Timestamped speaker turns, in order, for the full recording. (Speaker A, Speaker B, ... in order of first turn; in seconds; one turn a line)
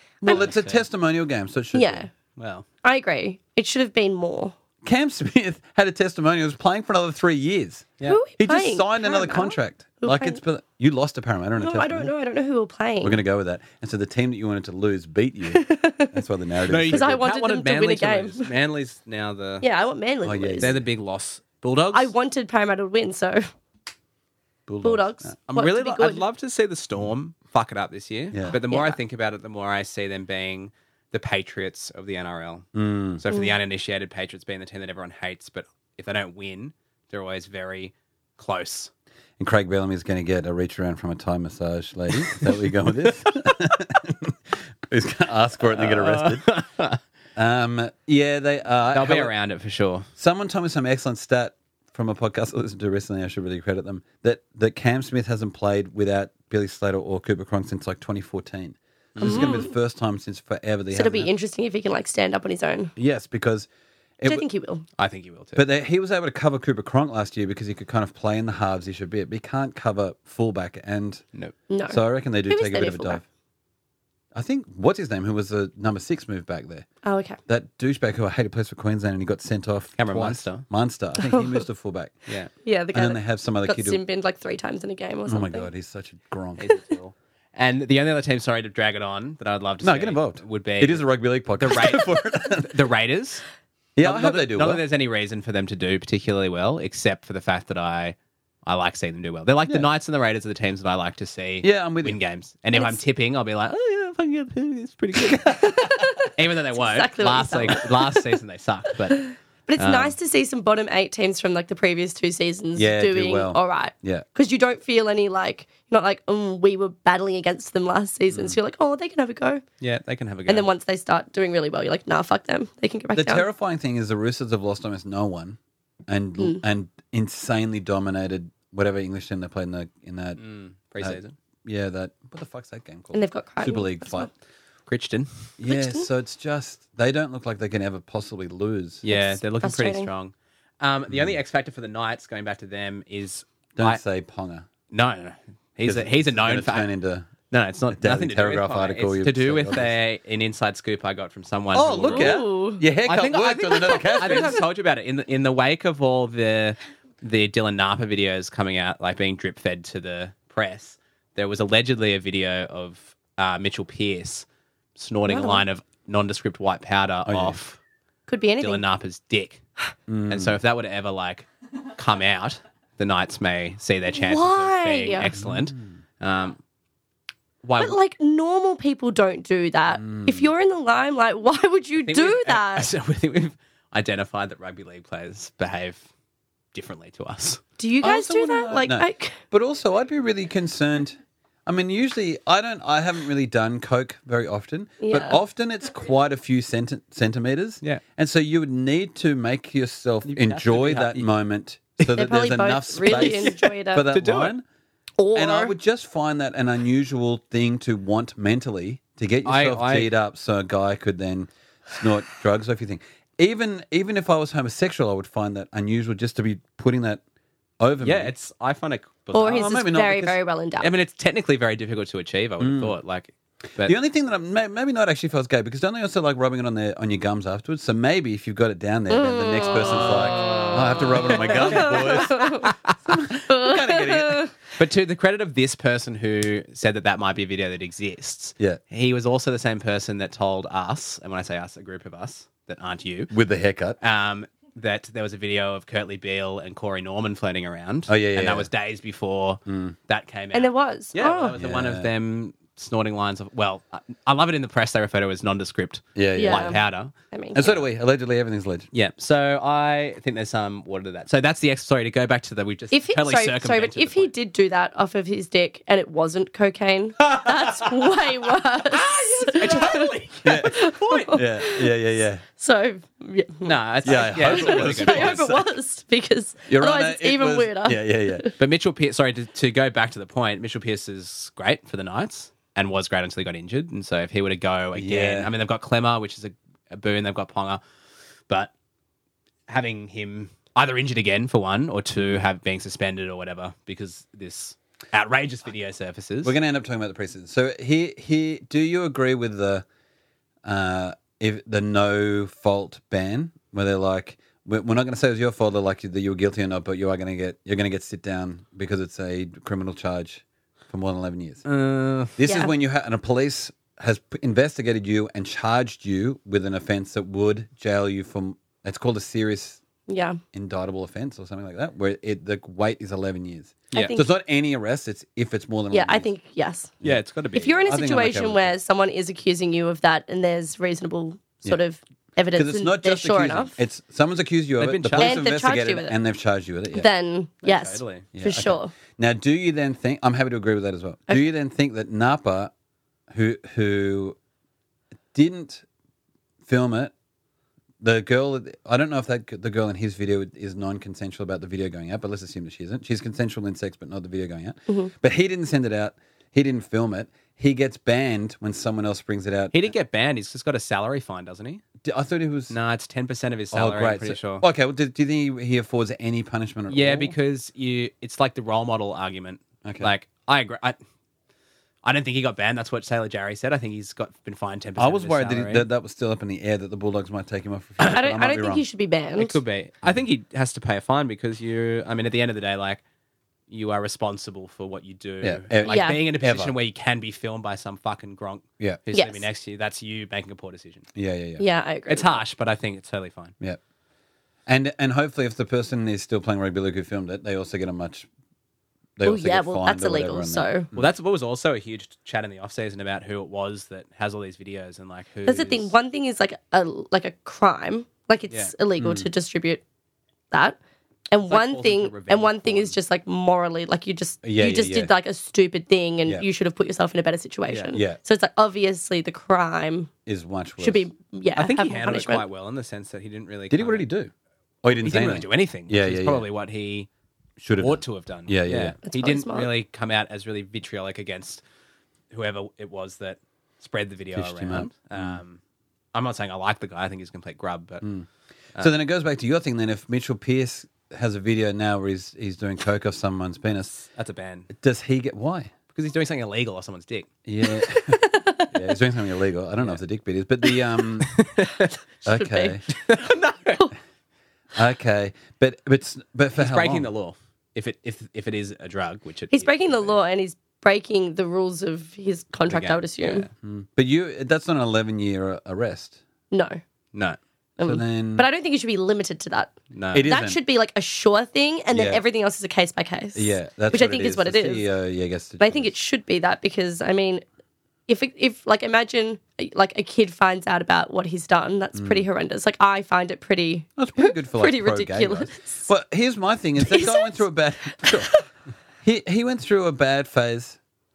Speaker A: 0.2-2.1
Speaker B: 0.3-0.8
Speaker C: 1.7-2.1
Speaker B: 2.4-2.6
Speaker C: 2.8-4.5
Speaker A: 4.8-12.1
Speaker C: 8.0-10.4
Speaker C: 11.6-13.2
Speaker A: 13.0-17.2
Speaker C: 15.5-16.1
Speaker B: 16.7-19.6
Speaker C: 16.8-18.5
Speaker C: 19.6-20.7
Speaker A: 20.2-20.8
Speaker B: 20.6-22.1
Speaker C: 21.9-23.5
Speaker A: 24.7-25.4
Speaker C: 24.8-26.2
Speaker B: 25.5-38.9
Speaker C: 28.5-29.0
Speaker A: 32.7-33.2
Speaker C: 33.3-33.5
Speaker A: 39.4-46.4
Speaker B: 45.7-47.0
Speaker A: 47.4-49.3
Speaker B: 48.9-50.1
Speaker A: 50.2-61.3
Speaker B: 59.1-59.6
Speaker C: 59.2-59.7
Speaker C: 60.9-62.9
Speaker A: 63.0-63.7
Speaker A: 64.2-64.4
Speaker C: 64.2-64.8
Speaker B: 65.0-65.6
Speaker A: 65.5-71.2
Speaker C: 71.7-73.2
Speaker A: 71.9-73.2
Speaker A: 74.3-76.8
Speaker C: 77.0-77.4
Speaker A: 77.5-82.2
Speaker B: 80.0-80.7
Speaker C: 81.2-81.6
Speaker C: 82.6-85.7
Speaker A: 82.9-84.0
Speaker A: 85.3-86.8
Speaker B: 86.6-91.1
Speaker A: 89.8-92.7
Speaker B: 91.6-93.4
Speaker A: 94.0-94.8
Speaker B: 94.0-105.6
Speaker A: 101.6-102.2
Speaker C: 102.7-103.0
Speaker C: 105.5-108.2
Speaker B: 106.3-110.1
Speaker C: 109.1-119.6
Speaker A: 112.8-114.2
Speaker B: 119.8-120.7
Speaker C: 120.5-123.4
Speaker A: 123.1-130.4
Speaker B: 130.4-131.3
Speaker A: 131.0-134.3
Speaker C: 133.1-134.3
Speaker B: 134.9-135.5
Speaker A: 135.6-139.1
Speaker C: 135.7-136.1
Speaker B: 139.0-144.0
Speaker C: 139.1-140.1
Speaker A: 141.1-141.3
Speaker A: 143.8-144.7
Speaker B: 144.9-146.9
Speaker A: 145.8-147.3
Speaker B: 147.5-152.4
Speaker A: 147.9-149.9
Speaker A: 151.7-154.6
Speaker C: 152.1-152.8
Speaker B: 153.0-164.4
Speaker B: 164.9-167.8
Speaker C: 165.3-165.6
Speaker A: 167.2-167.6
Speaker C: 168.3-168.8
Speaker B: 168.6-169.6
Speaker A: 170.1-170.6
Speaker B: 170.3-176.6
Speaker C: 174.2-175.3
Speaker A: 175.3-175.8
Speaker B: 177.6-177.9
Speaker C: 177.8-182.9
Speaker A: 180.0-180.5
Speaker B: 182.0-186.0
Speaker B: 186.7-187.6
Speaker C: 187.8-189.4
Speaker A: 188.0-204.6
Speaker C: 195.0-195.4
Speaker B: 200.2-201.2
Speaker C: 202.1-204.1
Speaker B: 203.0-204.5
Speaker C: 205.2-205.7
Speaker A: 205.3-217.2
Speaker B: 209.4-210.1
Speaker A: 217.8-218.3
Speaker B: 218.0-219.7
Speaker C: 219.3-220.9
Speaker A: 219.4-220.4
Speaker B: 220.8-223.9
Speaker A: 222.6-222.9
Speaker A: 223.8-234.4
Speaker C: 229.1-230.2
Speaker B: 229.9-232.7
Speaker C: 231.6-232.7
Speaker C: 233.5-234.5
Speaker B: 234.7-243.3
Speaker A: 243.3-244.0
Speaker B: 244.0-257.1
Speaker A: 248.1-248.7
Speaker A: 249.7-249.9
Speaker C: 250.5-251.6
Speaker A: 251.6-252.1
Speaker A: 256.1-256.8
Speaker C: 256.4-256.8
Speaker C: 257.3-257.6
Speaker A: 257.5-258.9
Speaker B: 258.9-264.3
Speaker C: 262.9-271.9
Speaker B: 268.8-271.4
Speaker A: 270.4-272.4
Speaker C: 272.5-278.5
Speaker B: 273.6-275.5
Speaker A: 274.0-275.7
Speaker A: 276.7-278.5
Speaker B: 278.6-287.8
Speaker A: 284.9-285.5
Speaker B: 289.7-296.5
Speaker A: 296.4-299.9
Speaker A: 300.6-311.6
Speaker B: 311.6-312.4
Speaker A: 312.4-319.8
Speaker C: 312.4-312.7
Speaker C: 320.1-320.4
Speaker A: 320.5-326.3
Speaker C: 323.9-324.3
Speaker C: 325.9-326.9
Speaker B: 327.0-327.9
Speaker C: 327.5-333.8
Speaker A: 327.9-328.7
Speaker A: 332.5-337.1
Speaker B: 334.8-335.4
Speaker C: 335.2-336.1
Speaker C: 336.9-338.9
Speaker B: 337.6-338.3
Speaker A: 338.3-342.7
Speaker A: 343.3-344.4
Speaker A: 345.3-345.8
Speaker A: 346.6-347.1
Speaker A: 348.0-359.8
Speaker B: 359.7-361.8
Speaker A: 362.0-362.7
Speaker B: 362.7-364.6
Speaker A: 363.7-367.4
Speaker B: 366.9-371.0
Speaker A: 369.8-370.1
Speaker B: 372.0-375.9
Speaker A: 375.0-378.8
Speaker C: 378.1-379.6
Speaker B: 379.4-383.0
Speaker B: 383.7-391.1
Speaker A: 385.4-386.8
Speaker C: 385.8-386.2
Speaker C: 389.1-389.4
Speaker A: 391.1-391.6
Speaker C: 391.6-392.4
Speaker B: 392.1-393.5
Speaker A: 394.7-398.3
Speaker A: 399.2-401.1
Speaker C: 399.2-400.9
Speaker B: 400.9-405.9
Speaker C: 405.4-409.8
Speaker A: 409.0-409.3
Speaker C: 410.5-410.8
Speaker C: 411.3-420.1
Speaker B: 411.5-412.9
Speaker A: 414.4-415.1
Speaker B: 417.7-417.9
Speaker A: 417.9-418.2
Speaker A: 420.2-421.1
Speaker C: 420.8-422.4
Speaker B: 421.6-424.0
Speaker A: 423.7-424.3
Speaker A: 424.8-426.4
Speaker B: 425.0-427.1
Speaker A: 427.6-428.9
Speaker B: 427.8-431.6
Speaker C: 429.0-429.7
Speaker B: 432.3-435.6
Speaker A: 434.4-435.4
Speaker B: 436.1-438.0
Speaker A: 438.0-444.1
Speaker B: 444.1-444.7
Speaker A: 444.7-445.7
Speaker B: 445.9-447.3
Speaker A: 447.4-451.4
Speaker C: 447.8-448.7
Speaker B: 451.2-451.9
Speaker A: 452.2-452.8
Speaker C: 452.3-452.9
Speaker B: 452.9-453.8
Speaker A: 454.7-457.1
Speaker B: 456.6-460.1
Speaker C: 459.5-463.5
Speaker B: 462.7-463.5
Speaker A: 463.6-466.2
Speaker C: 466.5-466.8
Speaker A: 467.8-468.5
Speaker C: 467.8-469.7
Speaker B: 469.9-470.3
Speaker A: 470.1-470.6
Speaker C: 470.2-474.8
Speaker A: 471.9-472.2
Speaker A: 473.3-475.9
Speaker C: 475.6-477.4
Speaker C: 478.1-485.9
Speaker A: 481.9-482.2
Speaker A: 484.0-488.3
Speaker C: 486.8-487.4
Speaker C: 488.0-488.4
Speaker A: 489.0-490.8